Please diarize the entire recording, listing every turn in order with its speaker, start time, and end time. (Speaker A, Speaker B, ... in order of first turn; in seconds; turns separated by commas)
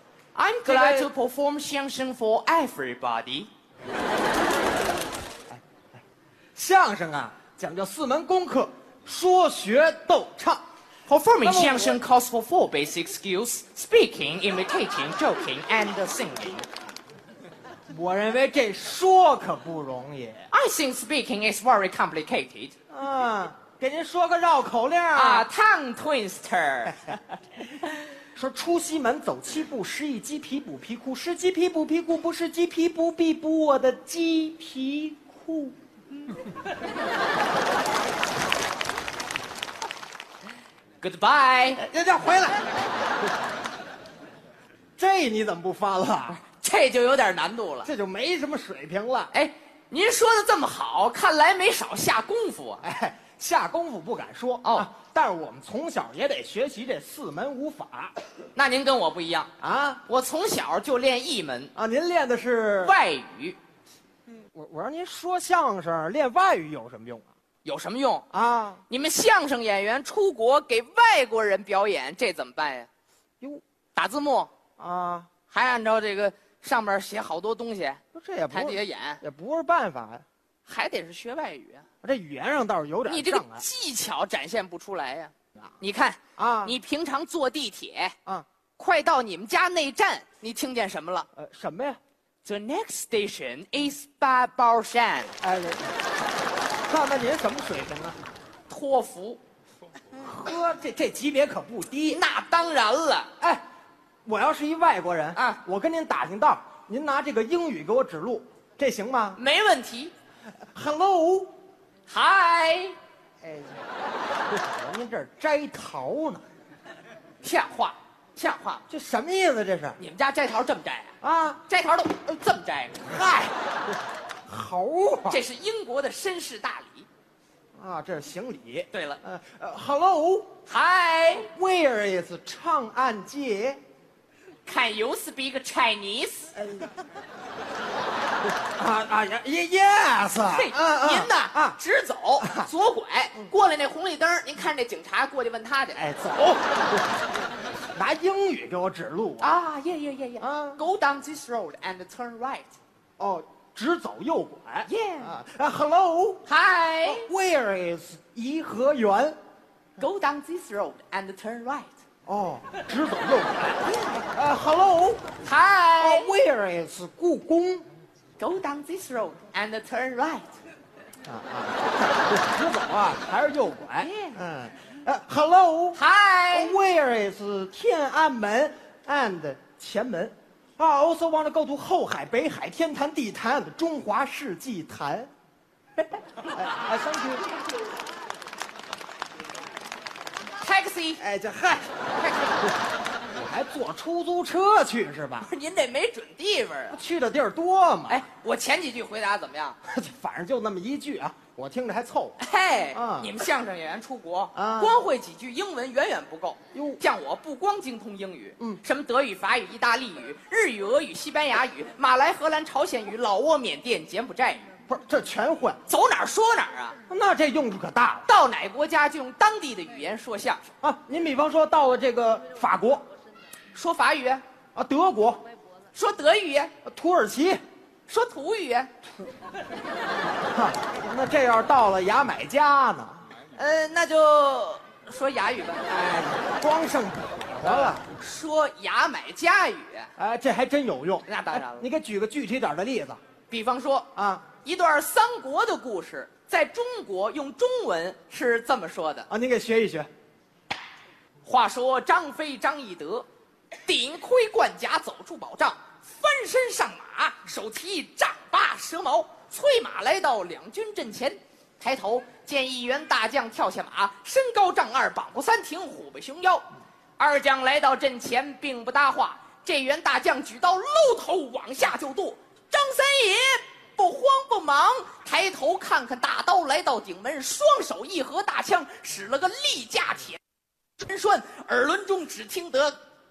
Speaker A: 0.3-3.5, Speaker B: 0.6-1.1, Speaker B: 5.5-6.0, Speaker B: 6.5-10.6, Speaker A: 11.1-16.7, Speaker B: 11.4-12.0, Speaker B: 17.9-20.4, Speaker A: 20.5-22.7, Speaker B: 22.9-25.5, Speaker A: 25.1-27.2, Speaker B: 28.3-35.7, Speaker A: 41.0-41.8, Speaker B: 41.8-42.7, Speaker B: 45.0-46.4, Speaker A: 46.3-47.9, Speaker B: 47.8-49.3, Speaker A: 49.3-52.8, Speaker B: 52.8-58.1, Speaker A: 54.6-54.9, Speaker A: 58.5-59.5, Speaker B: 59.6-60.0, Speaker A: 60.0-61.7, Speaker B: 61.7-63.0, Speaker A: 62.8-63.6, Speaker B: 64.3-67.3, Speaker A: 67.6-68.2, Speaker B: 68.3-68.8, Speaker A: 68.9-72.9, Speaker A: 73.9-74.5, Speaker B: 74.8-75.3, Speaker A: 75.5-79.2, Speaker B: 78.1-80.2, Speaker A: 80.7-81.9, Speaker B: 82.0-83.6, Speaker A: 83.0-88.1, Speaker B: 86.3-86.8, Speaker A: 88.8-91.3, Speaker B: 91.3-92.0, Speaker A: 92.4-95.3, Speaker B: 95.4-95.9, Speaker B: 96.9-98.2, Speaker A: 98.7-99.4, Speaker B: 100.1-102.2, Speaker A: 102.1-103.3, Speaker B: 104.2-109.4, Speaker A: 105.3-105.6, Speaker A: 109.3-110.1, Speaker B: 110.7-111.5, Speaker A: 112.1-113.0, Speaker B: 113.4-113.8, Speaker B: 114.5-116.4, Speaker A: 117.4-118.8, Speaker B: 118.9-120.0, Speaker A: 120.0-121.1, Speaker B: 121.2-121.6, Speaker A: 121.7-123.2, Speaker B: 123.0-125.4, Speaker A: 125.3-127.1, Speaker B: 127.7-130.5, Speaker A: 128.9-129.2, Speaker A: 130.7-131.5, Speaker B: 131.5-133.8, Speaker A: 134.7-136.5, Speaker B: 136.6-136.9, Speaker B: 138.7-141.8, Speaker A: 140.5-146.0, Speaker B: 142.4-142.7, Speaker B: 145.9-146.8, Speaker B: 147.9-149.5, Speaker A: 149.4-152.8, Speaker B: 150.4-150.8, Speaker B: 153.2-156.4, Speaker A: 154.8-155.4, Speaker A: 156.4-157.3, Speaker B: 157.0-159.4, Speaker A: 160.0-161.9, Speaker B: 162.2-165.2, Speaker A: 163.8-164.2, Speaker A: 165.4-166.3, Speaker B: 166.0-167.8, Speaker A: 168.4-170.5, Speaker B: 171.2-176.0, Speaker A: 174.0-174.4, Speaker A: 175.9-176.8, Speaker B: 176.5-185.3, Speaker B: 186.4-187.5, Speaker A: 190.6-191.2, Speaker B: 191.2-192.0, Speaker A: 192.2-192.7, Speaker B: 193.3-195.5, Speaker A: 195.4-197.0, Speaker B: 196.9-198.2, Speaker A: 198.1-199.8, Speaker B: 199.8-202.4, Speaker A: 202.4-214.7, Speaker B: 202.9-203.3, Speaker B: 204.5-205.0, Speaker B: 206.7-207.0, Speaker B: 214.9-215.8, Speaker A: 215.9-216.9, Speaker B: 217.1-218.3, Speaker A: 218.2-220.6, Speaker B: 220.8-223.1, Speaker A: 223.7-224.4, Speaker B: 224.7-225.4, Speaker A: 225.9-226.7, Speaker B: 226.8-227.6, Speaker A: 228.1-228.9, Speaker B: 230.5-233.2, Speaker A: 233.5-236.0, Speaker B: 235.9-238.0, Speaker A: 237.6-240.1, Speaker B: 240.2-243.2, Speaker A: 241.2-241.9, Speaker A: 243.5-244.1, Speaker B: 244.1-244.4, Speaker A: 244.6-249.3, Speaker B: 249.3-250.1, Speaker A: 251.4-253.3, Speaker A: 253.8-266.7, Speaker A: 267.2-280.4, Speaker A: 281.0-282.9